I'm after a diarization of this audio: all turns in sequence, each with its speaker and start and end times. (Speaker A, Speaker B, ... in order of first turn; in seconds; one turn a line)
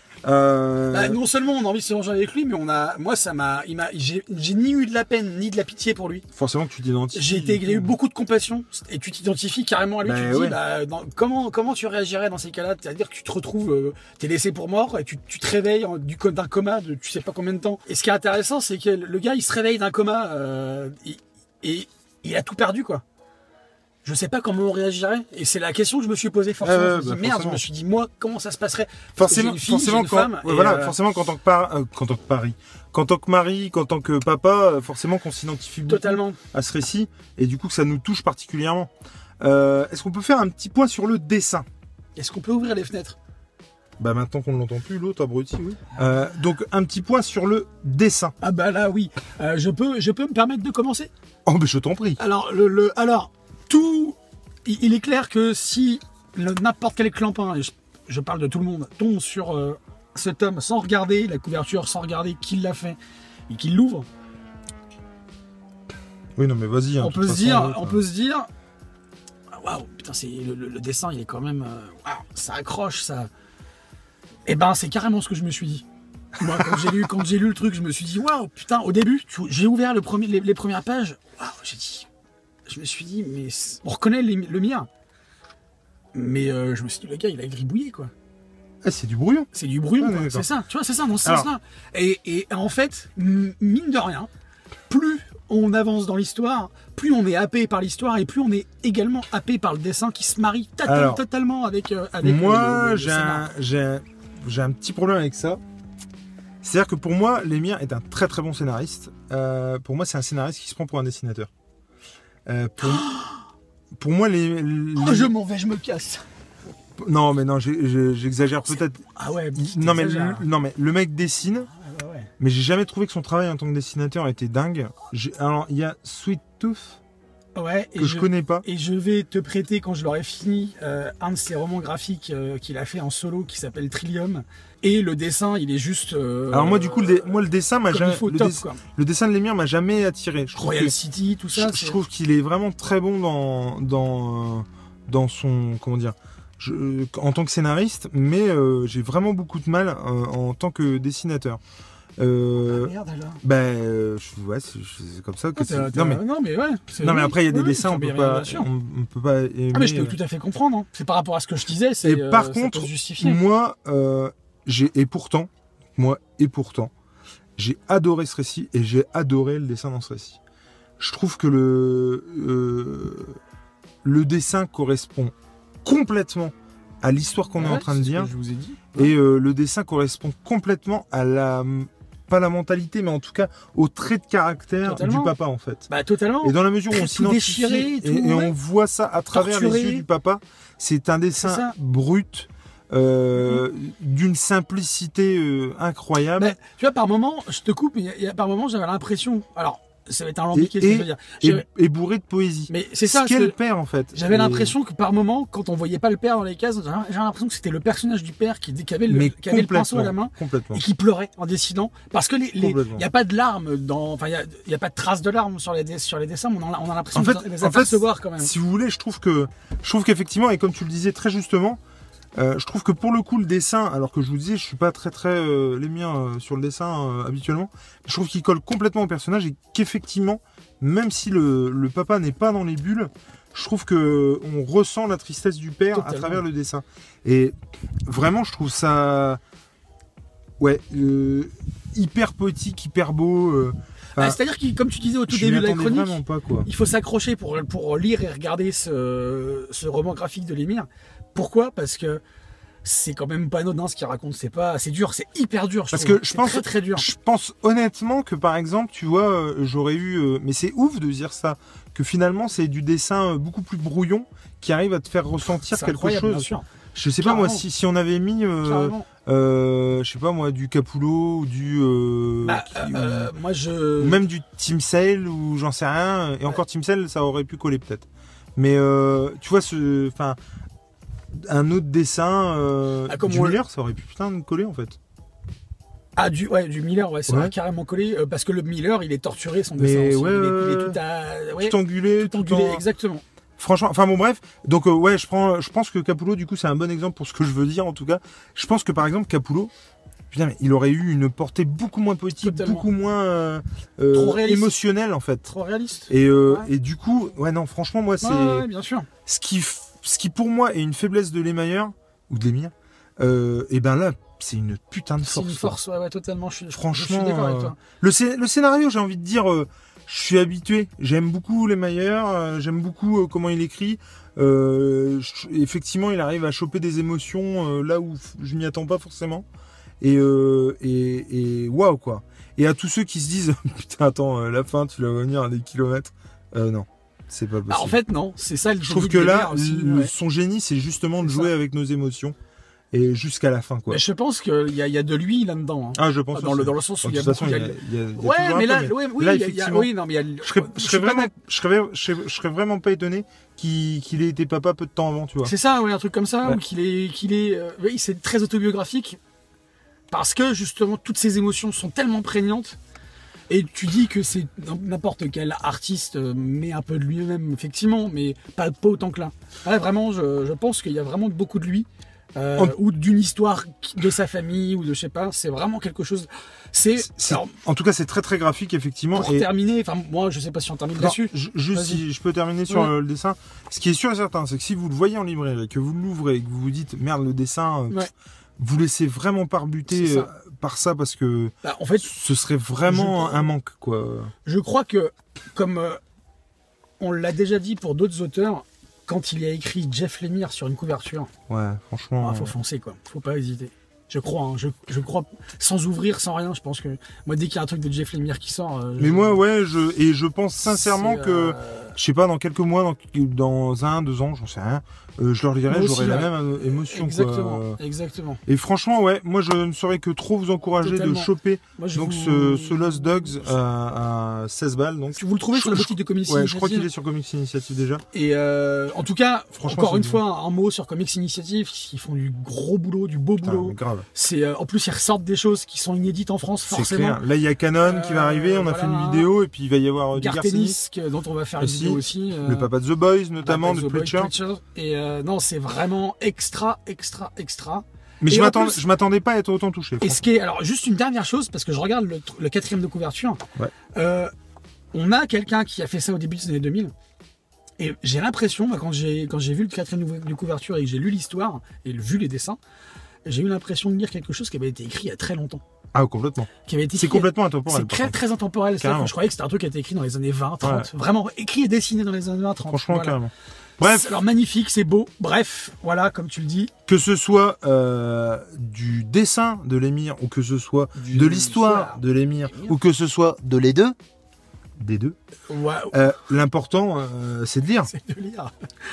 Speaker A: 0.2-1.2
Speaker B: 0.9-6.2
Speaker A: 6.3-8.0
Speaker B: 7.1-23.0
Speaker A: 10.0-10.6
Speaker B: 24.0-31.0
Speaker A: 26.6-27.6
Speaker A: 29.2-41.6
Speaker B: 35.9-36.4
Speaker B: 42.1-43.2
Speaker A: 44.0-48.3
Speaker B: 48.4-51.1
Speaker A: 51.5-52.2
Speaker B: 52.2-63.0
Speaker B: 63.5-64.1
Speaker A: 66.3-68.0
Speaker B: 67.0-68.5
Speaker B: 69.5-73.3
Speaker B: 74.5-75.8
Speaker A: 76.4-77.0
Speaker B: 76.4-82.1
Speaker B: 82.7-84.9
Speaker B: 86.1-88.1
Speaker A: 88.8-90.5
Speaker B: 89.5-94.3
Speaker A: 91.2-91.5
Speaker B: 94.9-103.5
Speaker A: 100.8-101.2
Speaker A: 102.2-105.6
Speaker A: 106.6-111.5
Speaker A: 112.5-113.1
Speaker B: 112.9-113.3
Speaker A: 114.0-115.3
Speaker B: 115.0-116.2
Speaker A: 117.0-119.0
Speaker B: 118.7-120.4
Speaker A: 119.5-121.7
Speaker B: 121.7-122.3
Speaker A: 122.4-127.0
Speaker B: 127.5-137.4
Speaker A: 128.0-128.7
Speaker A: 136.5-140.9
Speaker B: 137.9-138.8
Speaker B: 140.5-142.0
Speaker A: 141.5-151.6
Speaker A: 152.2-156.2
Speaker B: 152.6-153.4
Speaker B: 155.6-158.7
Speaker A: 157.0-160.2
Speaker B: 159.7-163.4
Speaker A: 162.0-166.9
Speaker A: 167.6-170.4
Speaker A: 171.0-173.4
Speaker A: 174.0-175.3
Speaker A: 175.8-178.3
Speaker B: 177.6-179.1
Speaker A: 178.9-185.9
Speaker B: 184.8-185.3
Speaker B: 185.9-188.5
Speaker A: 186.4-196.5
Speaker B: 189.3-190.0
Speaker B: 191.3-191.7
Speaker B: 196.3-201.6
Speaker A: 200.5-204.8
Speaker B: 202.7-203.6
Speaker B: 204.1-218.5
Speaker A: 209.1-210.8
Speaker A: 212.6-213.1
Speaker A: 217.1-221.8
Speaker A: 222.3-237.5
Speaker B: 235.9-236.4
Speaker A: 238.1-239.4
Speaker A: 240.6-244.4
Speaker B: 244.2-252.2
Speaker A: 245.3-246.7
Speaker B: 252.8-257.1
Speaker A: 255.9-273.3
Speaker B: 265.6-266.7
Speaker B: 267.2-267.6
Speaker B: 268.6-269.1
Speaker B: 272.4-274.2
Speaker A: 274.0-280.4
Speaker A: 281.3-285.0
Speaker B: 283.1-283.6
Speaker B: 286.1-293.2
Speaker A: 287.3-287.5
Speaker A: 289.8-291.0
Speaker A: 291.6-292.8
Speaker A: 293.6-299.7
Speaker A: 300.3-305.5
Speaker B: 302.4-302.9
Speaker B: 304.1-304.8
Speaker B: 305.4-306.7
Speaker A: 306.1-308.7
Speaker B: 308.2-309.1
Speaker A: 309.2-315.8
Speaker B: 315.2-317.8
Speaker A: 316.7-329.4
Speaker A: 330.0-338.0
Speaker B: 337.7-340.1
Speaker A: 338.8-342.4
Speaker B: 341.2-341.5
Speaker A: 342.9-344.0
Speaker B: 343.9-351.3
Speaker A: 345.9-355.5
Speaker B: 355.4-359.2
Speaker B: 360.1-362.8
Speaker B: 363.5-377.5
Speaker A: 377.0-379.5
Speaker B: 379.1-382.0
Speaker A: 381.0-388.0
Speaker A: 388.6-394.3
Speaker B: 389.9-390.3
Speaker B: 391.6-392.1
Speaker B: 392.9-393.5
Speaker B: 394.4-396.0
Speaker B: 397.0-401.3
Speaker A: 401.5-402.5
Speaker B: 402.2-409.4
Speaker A: 409.0-417.8
Speaker B: 410.6-411.9
Speaker B: 415.7-418.4
Speaker A: 418.5-428.0
Speaker B: 420.8-423.4
Speaker B: 425.1-426.9
Speaker B: 428.1-437.2
Speaker A: 429.6-430.2
Speaker A: 433.4-434.1
Speaker A: 436.7-440.8
Speaker B: 437.8-439.3
Speaker B: 440.1-442.7
Speaker A: 441.6-444.3
Speaker B: 443.4-448.8
Speaker A: 448.2-450.2
Speaker B: 450.0-453.4
Speaker B: 453.9-454.3
Speaker B: 454.9-456.9
Speaker B: 457.8-462.6
Speaker B: 463.2-465.6
Speaker A: 465.9-468.2
Speaker B: 466.6-473.2
Speaker A: 468.7-469.1
Speaker A: 470.6-470.9
Speaker A: 472.7-474.2
Speaker B: 473.8-476.7
Speaker A: 476.9-483.9
Speaker B: 480.9-482.7
Speaker A: 484.8-485.1
Speaker B: 485.5-486.0
Speaker A: 485.9-487.9
Speaker B: 487.8-488.5